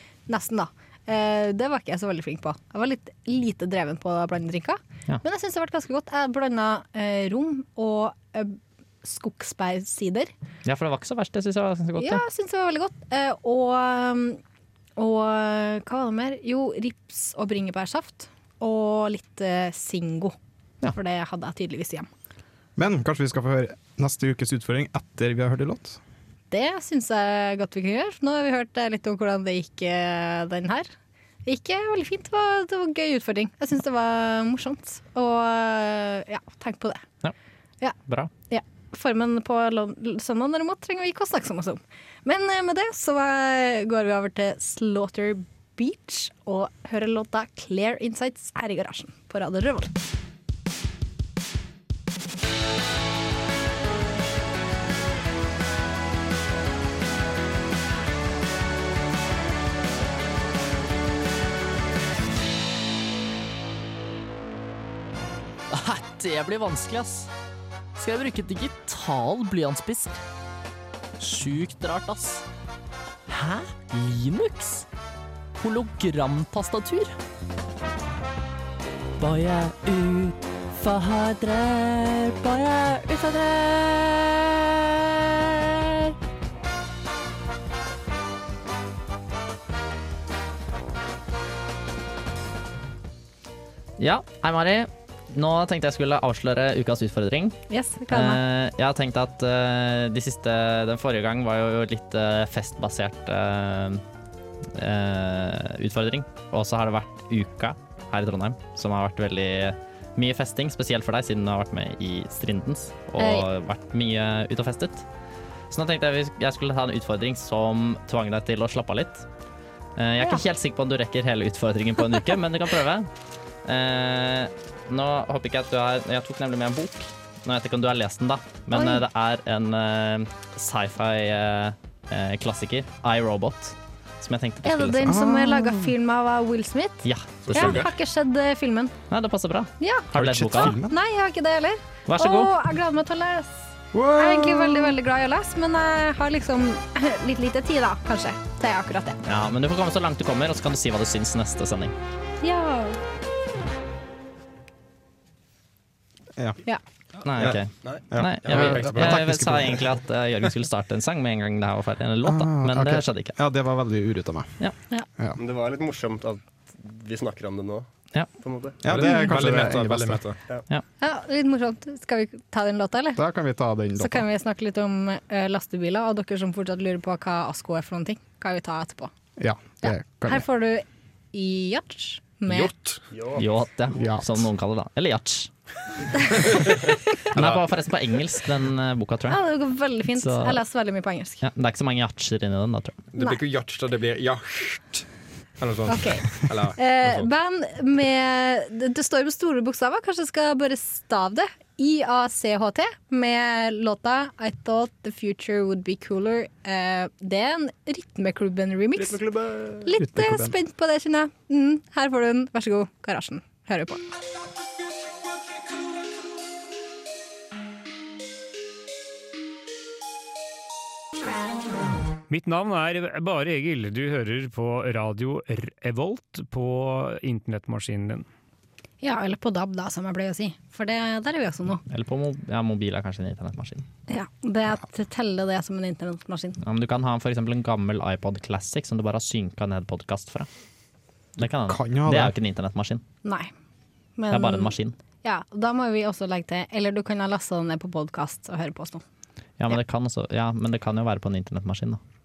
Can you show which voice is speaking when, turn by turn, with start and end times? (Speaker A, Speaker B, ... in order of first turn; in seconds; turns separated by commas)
Speaker A: 0.3-10.3, Speaker B: 10.7-12.2, Speaker A: 12.0-14.4, Speaker A: 15.0-20.4, Speaker A: 20.9-22.1, Speaker C: 22.8-26.0, Speaker A: 26.5-30.9, Speaker A: 31.4-37.0, Speaker B: 38.1-38.3, Speaker A: 38.5-50.0, Speaker B: 65.7-67.3, Speaker B: 68.0-70.2, Speaker B: 71.2-72.4, Speaker B: 73.3-74.9, Speaker B: 75.6-77.2, Speaker B: 79.2-85.6, Speaker B: 94.0-104.0, Speaker A: 97.7-98.4, Speaker B: 104.7-115.1, Speaker A: 113.2-113.5, Speaker B: 115.7-119.3, Speaker B: 120.0-123.1, Speaker B: 123.7-135.2, Speaker A: 128.7-129.0, Speaker A: 134.6-138.9, Speaker C: 135.1-135.9, Speaker B: 137.0-137.9, Speaker D: 137.4-137.9, Speaker B: 139.1-140.8, Speaker A: 139.8-143.6, Speaker C: 140.1-140.9, Speaker B: 142.1-142.5, Speaker C: 143.9-145.0, Speaker A: 144.1-149.2, Speaker B: 149.2-151.9, Speaker A: 152.4-153.0, Speaker C: 156.4-156.6, Speaker B: 157.2-163.4, Speaker C: 157.3-159.8, Speaker D: 158.4-159.3, Speaker C: 162.2-164.6, Speaker E: 165.4-167.9, Speaker E: 168.4-168.8, Speaker C: 168.8-170.2, Speaker D: 168.9-170.4, Speaker A: 169.1-169.4, Speaker A: 171.0-173.2, Speaker C: 173.2-174.2, Speaker A: 174.0-179.1, Speaker C: 179.4-180.5, Speaker A: 179.8-182.9, Speaker D: 182.5-183.0, Speaker E: 183.1-183.5, Speaker B: 183.4-185.5, Speaker C: 183.9-184.5, Speaker B: 187.3-189.4, Speaker D: 187.4-187.6, Speaker A: 189.3-191.4, Speaker B: 190.2-190.6, Speaker B: 191.4-193.0, Speaker D: 193.1-195.1, Speaker D: 195.6-197.3, Speaker A: 195.9-209.2, Speaker E: 209.0-209.9, Speaker A: 209.8-214.0, Speaker C: 209.9-210.6, Speaker F: 222.3-228.3, Speaker A: 229.0-231.8, Speaker B: 231.9-233.8, Speaker A: 234.1-236.6, Speaker B: 236.6-240.5, Speaker B: 241.4-243.0, Speaker C: 241.4-242.3, Speaker A: 243.2-243.5, Speaker A: 244.2-249.0, Speaker B: 244.3-245.0, Speaker B: 249.6-252.0